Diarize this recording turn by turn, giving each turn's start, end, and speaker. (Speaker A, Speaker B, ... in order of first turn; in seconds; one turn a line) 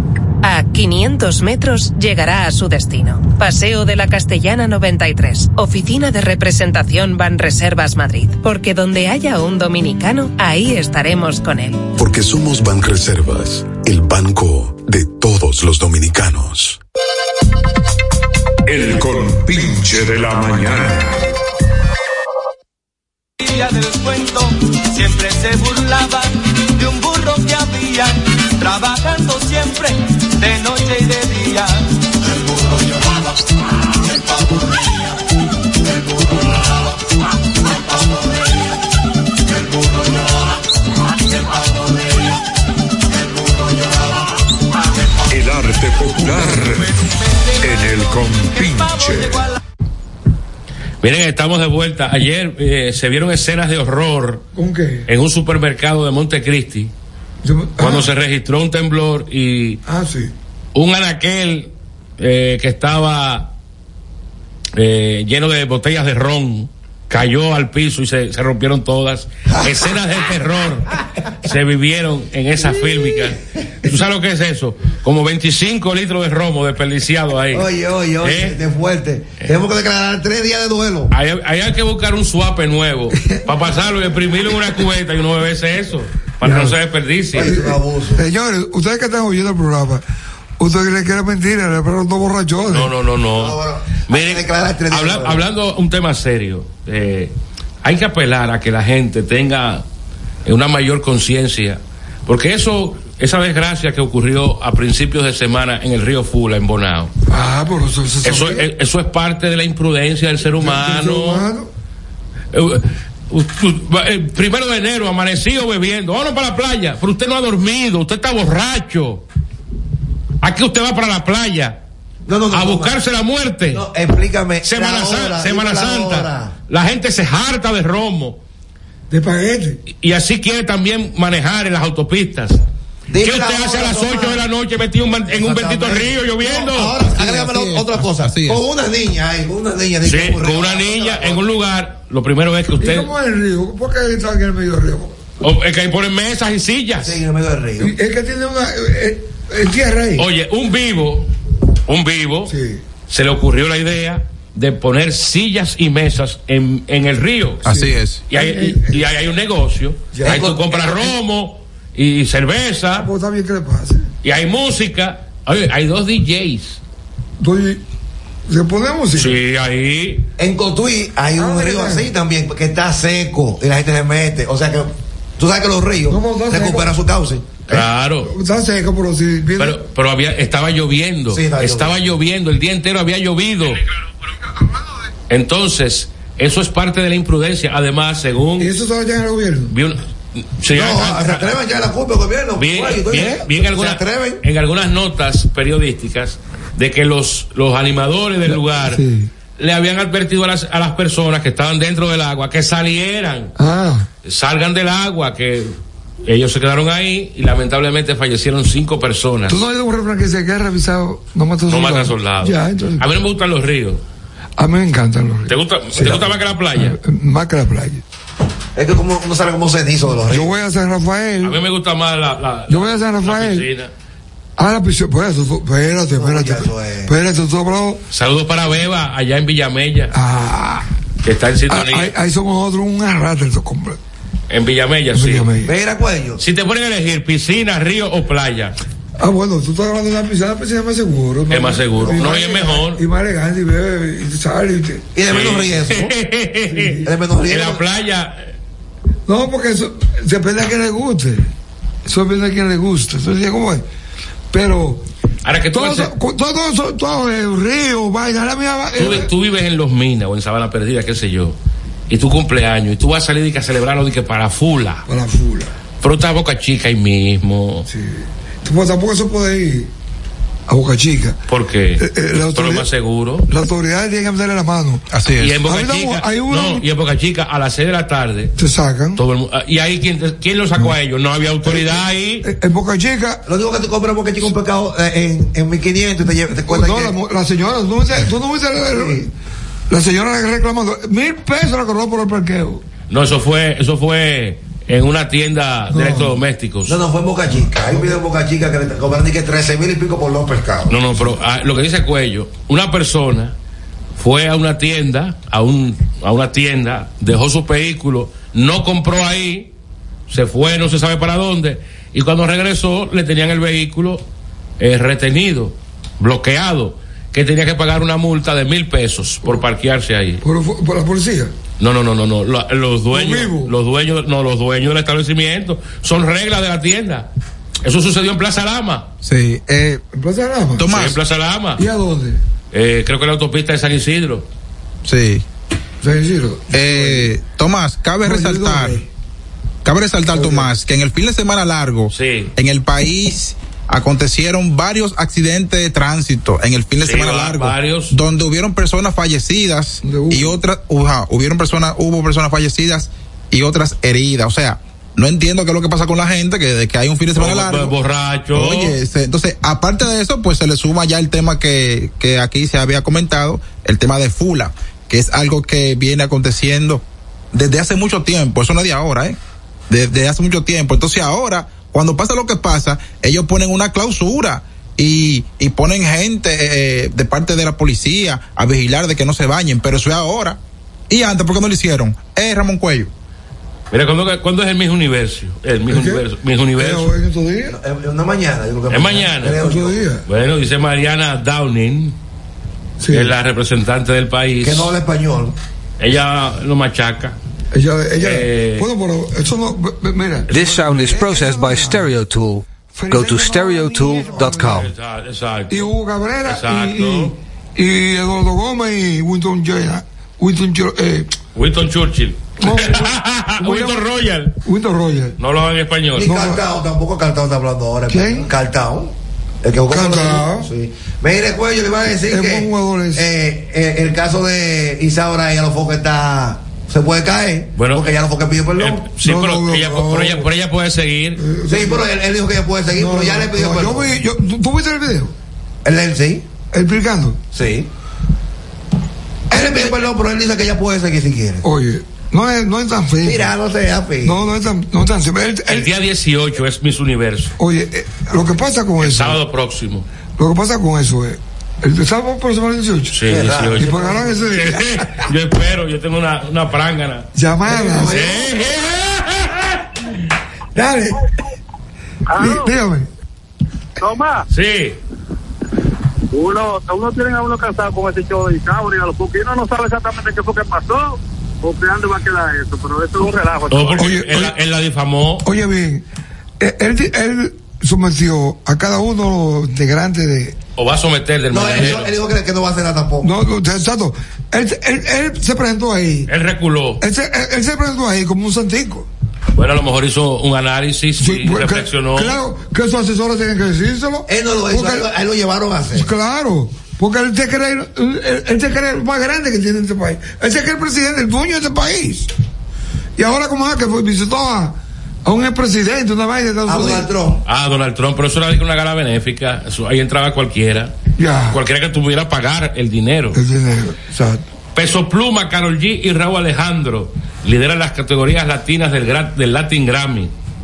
Speaker A: 0.4-11.8
Speaker B: 11.9-16.8
Speaker C: 18.7-21.2
Speaker D: 23.4-31.9
Speaker C: 45.3-47.0
Speaker C: 47.6-49.5
Speaker E: 51.0-54.4
Speaker F: 54.5-55.1
Speaker E: 55.1-56.9
Speaker F: 57.4-58.1
Speaker E: 57.8-59.8
Speaker F: 59.9-60.3
Speaker E: 60.7-63.5
Speaker E: 64.8-77.7
Speaker G: 77.5-81.1
Speaker E: 78.2-78.6
Speaker E: 81.1-87.5
Speaker F: 86.4-86.7
Speaker G: 87.3-88.2
Speaker F: 87.3-90.0
Speaker F: 90.6-92.9
Speaker E: 92.7-99.8
Speaker G: 93.3-95.5
Speaker E: 100.4-107.1
Speaker F: 107.3-108.7
Speaker E: 108.2-111.5
Speaker F: 110.5-111.7
Speaker E: 112.5-119.2
Speaker E: 120.4-121.8
Speaker G: 122.2-123.0
Speaker E: 122.5-123.8
Speaker G: 123.7-126.5
Speaker E: 124.6-128.4
Speaker F: 129.1-129.8
Speaker E: 130.0-132.6
Speaker G: 133.1-134.4
Speaker E: 133.2-137.0
Speaker G: 135.3-141.4
Speaker H: 137.1-138.6
Speaker E: 140.0-143.1
Speaker F: 142.8-145.2
Speaker E: 145.4-147.2
Speaker G: 147.0-147.9
Speaker F: 147.8-150.2
Speaker E: 150.2-151.3
Speaker E: 151.9-152.5
Speaker F: 152.5-152.8
Speaker E: 153.1-157.6
Speaker H: 157.6-158.3
Speaker F: 157.7-159.0
Speaker E: 158.3-163.1
Speaker F: 160.1-160.4
Speaker G: 160.2-161.2
Speaker F: 163.0-164.1
Speaker E: 164.2-166.8
Speaker F: 167.4-167.8
Speaker F: 168.5-169.3
Speaker E: 169.1-170.2
Speaker G: 170.4-177.9
Speaker F: 171.4-172.1
Speaker F: 176.1-176.9
Speaker E: 177.7-178.3
Speaker F: 178.2-179.8
Speaker E: 179.6-183.8
Speaker G: 181.3-182.0
Speaker E: 185.3-188.7
Speaker F: 188.6-189.7
Speaker E: 189.7-191.6
Speaker G: 190.7-194.4
Speaker E: 192.6-199.0
Speaker F: 198.5-199.3
Speaker E: 199.6-203.5
Speaker F: 203.6-204.1
Speaker E: 204.2-205.7
Speaker E: 206.2-209.6
Speaker F: 209.5-213.0
Speaker E: 211.7-214.0
Speaker F: 214.6-218.0
Speaker E: 215.5-216.9
Speaker G: 218.7-220.5
Speaker F: 220.3-221.6
Speaker E: 221.4-223.9
Speaker F: 222.7-223.7
Speaker F: 224.6-228.0
Speaker G: 226.1-227.1
Speaker E: 228.1-230.1
Speaker F: 230.1-230.8
Speaker E: 231.2-232.1
Speaker F: 231.7-234.0
Speaker E: 234.5-235.5
Speaker F: 235.1-235.7
Speaker G: 235.6-236.4
Speaker E: 236.4-238.8
Speaker F: 239.2-245.1
Speaker E: 241.5-243.0
Speaker G: 242.0-242.4
Speaker G: 245.1-246.1
Speaker E: 245.3-248.5
Speaker F: 246.7-247.1
Speaker G: 247.0-247.8
Speaker F: 249.3-251.5
Speaker F: 252.1-253.8
Speaker F: 254.5-255.0
Speaker E: 255.4-256.1
Speaker F: 255.7-259.3
Speaker E: 259.0-261.6
Speaker E: 262.1-265.1
Speaker F: 265.1-265.7
Speaker E: 266.0-267.9
Speaker F: 267.9-269.9
Speaker F: 270.7-271.4
Speaker E: 271.5-273.5
Speaker F: 272.0-272.9
Speaker F: 273.5-275.1
Speaker H: 275.1-275.6
Speaker E: 275.4-278.5
Speaker F: 275.6-276.8
Speaker F: 278.6-279.2
Speaker E: 279.1-282.5
Speaker F: 281.6-283.4
Speaker G: 283.4-287.1
Speaker F: 286.7-289.3
Speaker G: 288.8-289.3
Speaker F: 289.9-292.8
Speaker E: 293.1-297.0
Speaker F: 295.9-296.4
Speaker G: 296.9-301.1
Speaker F: 297.6-298.1
Speaker E: 300.9-303.5
Speaker E: 304.2-309.7
Speaker E: 310.3-314.2
Speaker E: 314.8-320.4
Speaker F: 320.4-321.5
Speaker E: 321.8-327.3
Speaker F: 323.1-323.7
Speaker E: 327.8-329.1
Speaker H: 329.2-330.0
Speaker F: 330.1-330.9
Speaker H: 330.8-331.2
Speaker E: 330.9-331.8
Speaker F: 331.8-332.4
Speaker E: 332.7-334.4
Speaker H: 335.0-335.4
Speaker F: 336.0-337.3
Speaker H: 336.7-339.0
Speaker F: 338.2-339.1
Speaker H: 339.8-357.9
Speaker F: 340.3-340.7
Speaker E: 342.1-342.5
Speaker E: 347.0-348.1
Speaker F: 350.0-350.6
Speaker E: 357.4-358.9
Speaker H: 358.5-369.4
Speaker H: 369.9-383.1
Speaker E: 383.9-387.1
Speaker F: 385.9-386.2
Speaker F: 386.8-387.8
Speaker G: 387.7-390.0
Speaker E: 388.9-389.6
Speaker F: 389.5-390.2
Speaker E: 390.3-392.1
Speaker F: 393.0-393.3
Speaker E: 393.1-394.9
Speaker G: 394.6-395.6
Speaker E: 396.0-397.4
Speaker F: 397.7-402.1
Speaker E: 398.2-398.9
Speaker I: 400.5-404.9
Speaker F: 402.9-404.9
Speaker E: 404.6-405.9
Speaker F: 405.7-411.3
Speaker E: 406.4-407.3
Speaker E: 411.5-414.5
Speaker F: 412.6-414.1
Speaker F: 414.6-415.4
Speaker E: 415.4-416.3
Speaker G: 416.1-429.1
Speaker F: 416.2-416.6
Speaker F: 418.1-418.5
Speaker F: 419.9-420.7
Speaker F: 422.2-423.3
Speaker E: 427.8-428.1
Speaker E: 428.8-431.4
Speaker F: 429.2-430.3
Speaker F: 431.4-432.0
Speaker G: 431.7-434.1
Speaker F: 432.9-435.3
Speaker G: 435.8-436.5
Speaker F: 436.7-437.4
Speaker G: 437.5-437.9
Speaker G: 439.5-441.6
Speaker F: 439.5-440.0
Speaker F: 441.6-443.5
Speaker G: 443.2-444.4
Speaker F: 444.2-445.9
Speaker E: 445.7-447.5
Speaker F: 447.6-449.4
Speaker E: 449.0-450.1
Speaker F: 450.4-454.8
Speaker E: 453.1-459.8
Speaker G: 453.3-454.5
Speaker F: 457.3-458.2
Speaker G: 457.6-458.6
Speaker F: 460.8-461.2
Speaker J: 462.3-462.7
Speaker F: 462.4-463.1
Speaker J: 464.0-464.4
Speaker E: 464.5-465.0
Speaker J: 466.3-474.1
Speaker E: 473.7-475.4
Speaker F: 474.0-474.5
Speaker F: 475.4-476.0
Speaker F: 476.6-480.6
Speaker E: 480.8-482.1
Speaker G: 481.5-483.3
Speaker F: 483.2-486.3
Speaker E: 486.3-487.0
Speaker F: 487.0-489.1
Speaker E: 489.6-492.4
Speaker F: 491.2-495.1
Speaker G: 494.3-496.1
Speaker F: 495.9-502.3
Speaker F: 503.1-507.1
Speaker G: 506.6-507.4
Speaker E: 507.4-510.9
Speaker F: 511.2-511.6
Speaker E: 511.5-513.4
Speaker F: 513.3-514.4
Speaker E: 514.7-520.3